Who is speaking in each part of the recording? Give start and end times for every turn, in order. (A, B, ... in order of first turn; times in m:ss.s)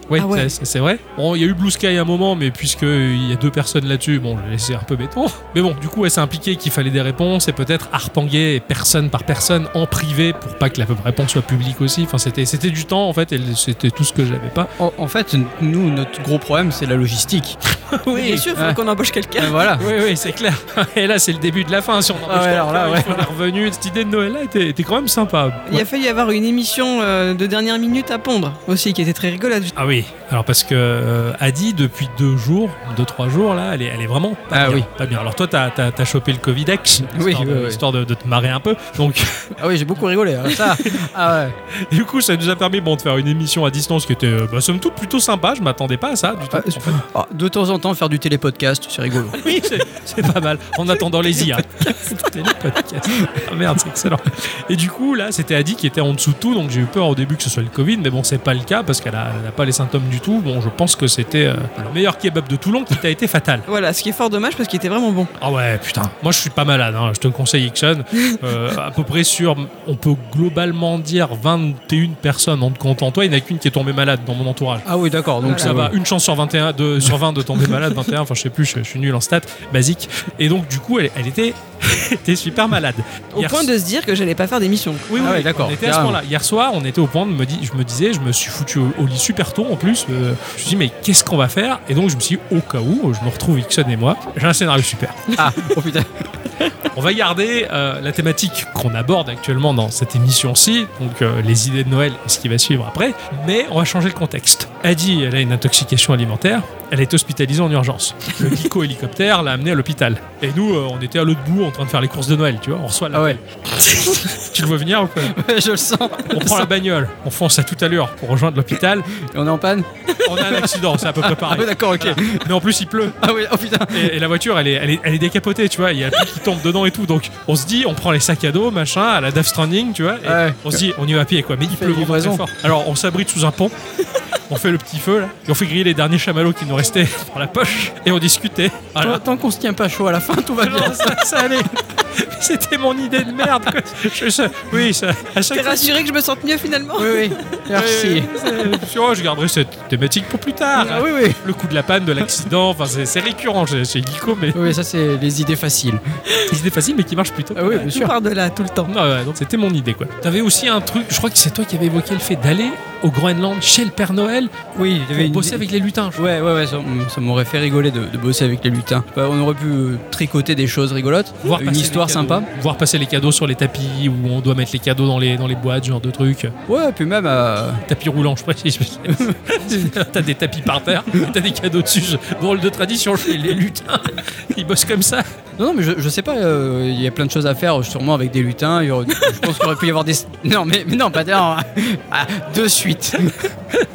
0:00.1-0:14.7 A
0:00.2-0:00.5 B
0:14.8-0:17.6 C
0:17.9-0:18.5 A
0:18.1-0:19.6 B
0:19.4-0:19.9 C
0:19.8-0:25.8 A
0:22.3-0:23.3 C
0:25.7-0:29.7 B
0:29.8-0:39.6 A
0:34.5-0:34.9 C
0:37.1-0:37.8 C
0:39.6-0:41.6 C
0:41.8-0:47.0 A
0:46.5-0:49.4 C
0:49.4-1:03.7 A
1:03.7-1:05.3 B
1:05.4-1:14.8 A
1:14.8-1:15.9 C
1:15.4-1:23.7 A
1:15.4-1:15.7 B
1:23.3-1:25.1 B
1:25.1-1:35.2 A
1:25.2-1:26.2 C
1:35.4-1:36.3 C
1:36.9-1:55.4 A
1:53.1-1:53.4 C
1:53.9-1:54.2 C
1:55.2-1:56.7 C
1:56.3-1:59.1 A
1:59.1-2:02.5 C
2:00.2-2:03.2 A
2:03.2-2:04.1 C
2:03.9-2:13.7 A
2:10.2-2:10.8 C
2:11.7-2:12.4 C
2:14.5-2:19.2 A
2:19.0-2:21.2 C
2:20.6-2:26.0 A
2:25.5-2:27.4 B
2:27.0-2:28.4 C
2:27.7-2:34.7 A
2:30.8-2:31.4 C
2:34.5-2:36.0 C
2:36.5-2:37.9 A
2:37.6-2:38.1 C
2:37.8-2:38.9 B
2:38.9-2:44.5 A
2:44.8-2:45.6 C
2:45.1-2:46.3 A
2:46.2-2:52.5 C
2:51.4-2:56.5 A
2:56.7-2:57.8 C
2:57.9-3:05.2 A
2:59.1-2:59.9 C
3:05.6-3:13.5 C